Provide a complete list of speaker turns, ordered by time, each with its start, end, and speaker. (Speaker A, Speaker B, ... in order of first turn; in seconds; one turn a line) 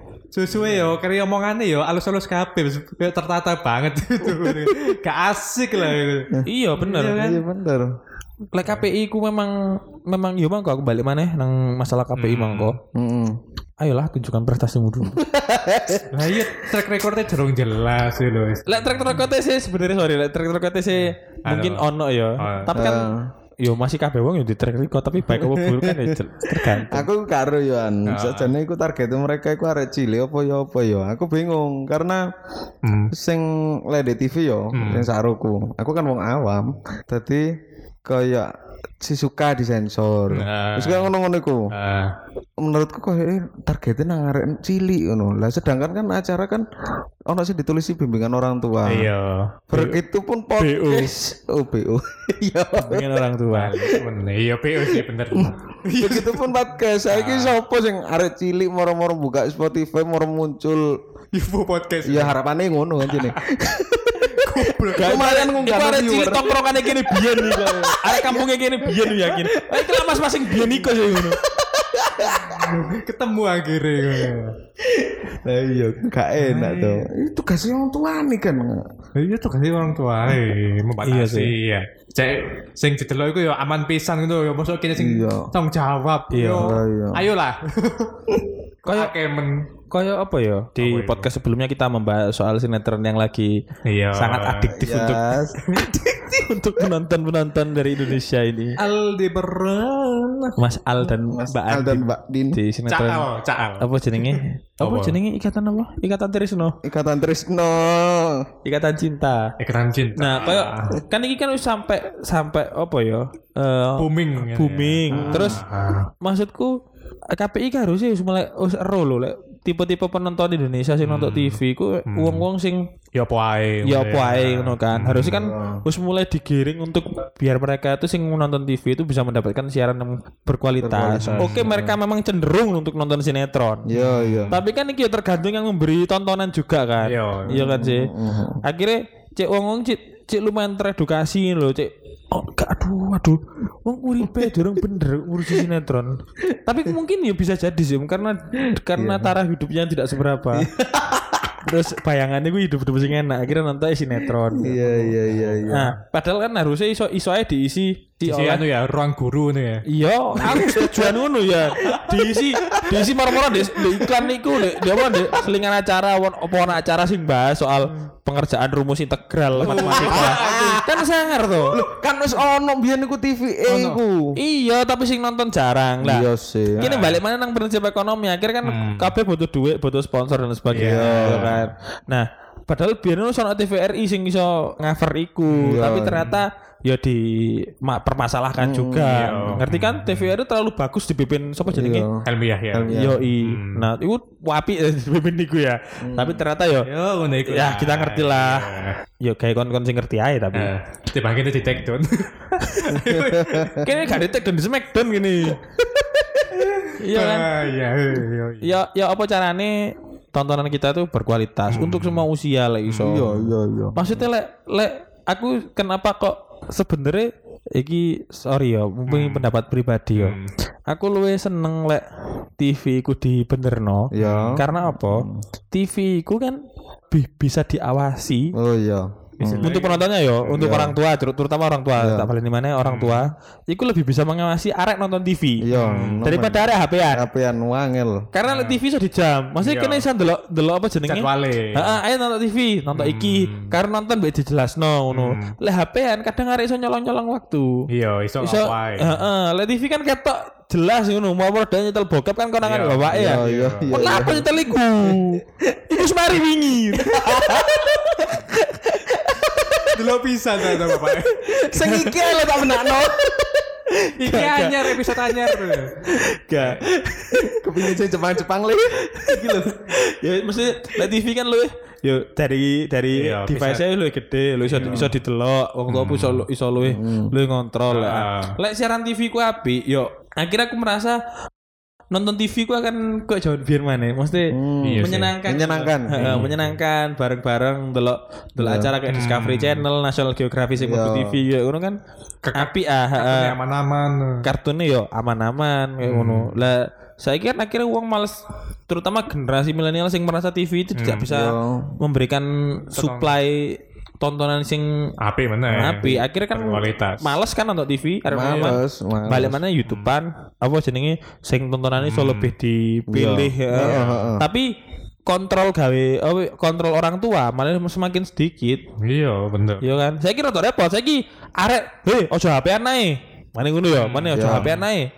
Speaker A: 0.3-7.4
Speaker B: 4.4-4.7
Speaker C: 6.5-7.2
Speaker B: 7.1-7.9
Speaker C: 8.5-12.8
Speaker A: 12.2-12.8
Speaker B: 12.9-13.4
Speaker C: 13.8-15.2
Speaker B: 15.1-16.3
Speaker A: 16.1-19.3
Speaker C: 18.7-23.1
Speaker A: 21.0-21.9
Speaker A: 22.4-22.7
Speaker B: 22.7-23.3
Speaker C: 23.6-27.1
Speaker B: 25.4-26.1
Speaker B: 26.8-32.2
Speaker A: 28.1-28.5
Speaker A: 32.8-33.1
Speaker B: 33.1-37.5
Speaker A: 34.7-35.1
Speaker B: 38.0-38.5
Speaker B: 39.0-41.7
Speaker A: 40.3-41.1
Speaker A: 41.7-42.1
Speaker B: 42.6-46.6
Speaker B: 47.3-49.1
Speaker A: 48.9-49.6
Speaker B: 49.7-53.3
Speaker C: 50.6-51.1
Speaker C: 52.8-53.7
Speaker A: 53.5-56.5
Speaker B: 54.8-60.9
Speaker A: 57.1-57.5
Speaker A: 61.3-62.4
Speaker B: 62.0-69.8
Speaker A: 63.1-63.4
Speaker A: 64.2-65.7
Speaker C: 65.0-71.4
Speaker B: 70.6-72.8
Speaker A: 72.2-74.5
Speaker B: 74.2-78.8
Speaker A: 76.4-77.1
Speaker A: 79.2-88.3
Speaker C: 81.0-81.5
Speaker B: 84.9-85.5
Speaker C: 86.3-86.7
Speaker B: 86.5-87.3
Speaker A: 88.8-89.6
Speaker C: 88.8-89.1
Speaker C: 89.9-93.6
Speaker A: 90.8-91.3
Speaker A: 93.8-94.7
Speaker C: 94.1-95.3
Speaker B: 94.8-95.6
Speaker A: 95.6-96.3
Speaker C: 96.2-98.8
Speaker A: 98.8-100.6
Speaker C: 100.6-103.3
Speaker B: 101.3-102.6
Speaker A: 102.9-105.2
Speaker C: 103.8-106.8
Speaker B: 106.8-108.5
Speaker C: 108.6-109.5
Speaker A: 109.6-111.0
Speaker C: 110.2-115.6
Speaker A: 114.0-116.1
Speaker B: 115.1-115.6
Speaker C: 116.2-116.7
Speaker C: 117.3-122.9
Speaker A: 121.0-122.5
Speaker A: 123.1-125.4
Speaker C: 123.8-133.9
Speaker B: 125.3-125.8
Speaker B: 130.8-132.0
Speaker A: 131.2-131.7
Speaker B: 133.9-134.6
Speaker A: 133.9-134.6
Speaker C: 134.5-150.7
Speaker A: 137.0-137.6
Speaker B: 137.5-138.6
Speaker B: 148.9-149.4
Speaker B: 150.5-151.4
Speaker C: 151.6-155.2
Speaker B: 154.5-155.9
Speaker A: 155.3-155.7
Speaker C: 155.7-158.6
Speaker A: 158.2-159.8
Speaker C: 159.8-171.8
Speaker B: 160.3-161.2
Speaker A: 160.4-160.7
Speaker B: 161.8-165.3
Speaker A: 169.5-170.8
Speaker B: 169.6-171.0
Speaker B: 171.7-174.4
Speaker A: 173.7-174.0
Speaker C: 174.3-176.3
Speaker B: 176.0-176.9
Speaker A: 176.8-177.2
Speaker C: 176.8-192.1
Speaker A: 178.6-179.1
Speaker A: 180.7-181.7
Speaker B: 180.7-181.5
Speaker B: 185.6-186.3
Speaker B: 188.6-189.5
Speaker A: 189.1-190.3
Speaker B: 191.7-193.2
Speaker A: 192.2-193.9
Speaker C: 192.9-196.9
Speaker B: 196.0-196.4
Speaker A: 196.8-199.0
Speaker C: 197.4-200.7
Speaker A: 200.5-203.9
Speaker C: 202.6-203.0
Speaker B: 203.0-203.8
Speaker C: 203.8-205.6
Speaker A: 206.6-208.8
Speaker C: 206.9-207.5
Speaker C: 208.6-220.3
Speaker A: 211.7-212.3
Speaker A: 212.9-213.1
Speaker B: 213.0-214.2
Speaker A: 219.1-219.5
Speaker A: 220.1-220.5
Speaker C: 220.9-222.0
Speaker C: 222.6-228.5
Speaker B: 224.1-225.4
Speaker A: 224.2-224.6
Speaker B: 228.5-229.8
Speaker A: 229.4-230.6
Speaker C: 229.6-235.7
Speaker B: 230.5-231.0
Speaker B: 231.9-232.3
Speaker A: 232.8-233.3
Speaker B: 235.6-238.3
Speaker A: 235.7-236.3
Speaker C: 236.2-237.3
Speaker C: 238.3-247.8
Speaker A: 238.4-238.8
Speaker A: 239.6-240.1
Speaker A: 241.1-242.0
Speaker A: 242.9-243.7
Speaker A: 245.1-245.6
Speaker A: 247.9-249.2
Speaker C: 248.4-259.9
Speaker A: 252.6-254.3
Speaker B: 253.1-254.6
Speaker B: 256.9-258.3
Speaker B: 259.1-259.9
Speaker A: 259.8-261.9
Speaker C: 261.0-263.1
Speaker B: 261.7-263.6
Speaker C: 264.0-265.4
Speaker A: 264.2-266.0
Speaker C: 266.0-267.6
Speaker A: 266.5-266.8
Speaker B: 267.3-269.6
Speaker C: 269.3-281.2
Speaker A: 273.1-273.8
Speaker A: 274.6-275.1
Speaker B: 274.8-275.1
Speaker A: 275.9-276.4
Speaker B: 276.8-277.3
Speaker A: 277.9-278.6
Speaker C: 282.1-292.0
Speaker B: 284.5-286.5
Speaker A: 284.8-286.7
Speaker B: 288.6-288.9
Speaker A: 289.1-289.9
Speaker B: 290.8-291.4
Speaker A: 292.4-294.4
Speaker C: 292.5-293.5
Speaker C: 294.4-305.1
Speaker A: 296.0-296.5
Speaker A: 300.9-301.3
Speaker B: 301.3-302.0
Speaker A: 302.9-303.4
Speaker A: 305.2-307.3
Speaker C: 305.7-314.7
Speaker B: 305.8-306.2
Speaker B: 308.3-309.6
Speaker A: 308.4-308.8
Speaker A: 309.9-310.1
Speaker A: 312.0-312.5
Speaker B: 313.1-314.5
Speaker A: 313.7-314.3
Speaker C: 315.3-318.8
Speaker A: 319.0-319.8
Speaker C: 319.8-325.1
Speaker A: 323.9-324.8
Speaker B: 324.3-324.7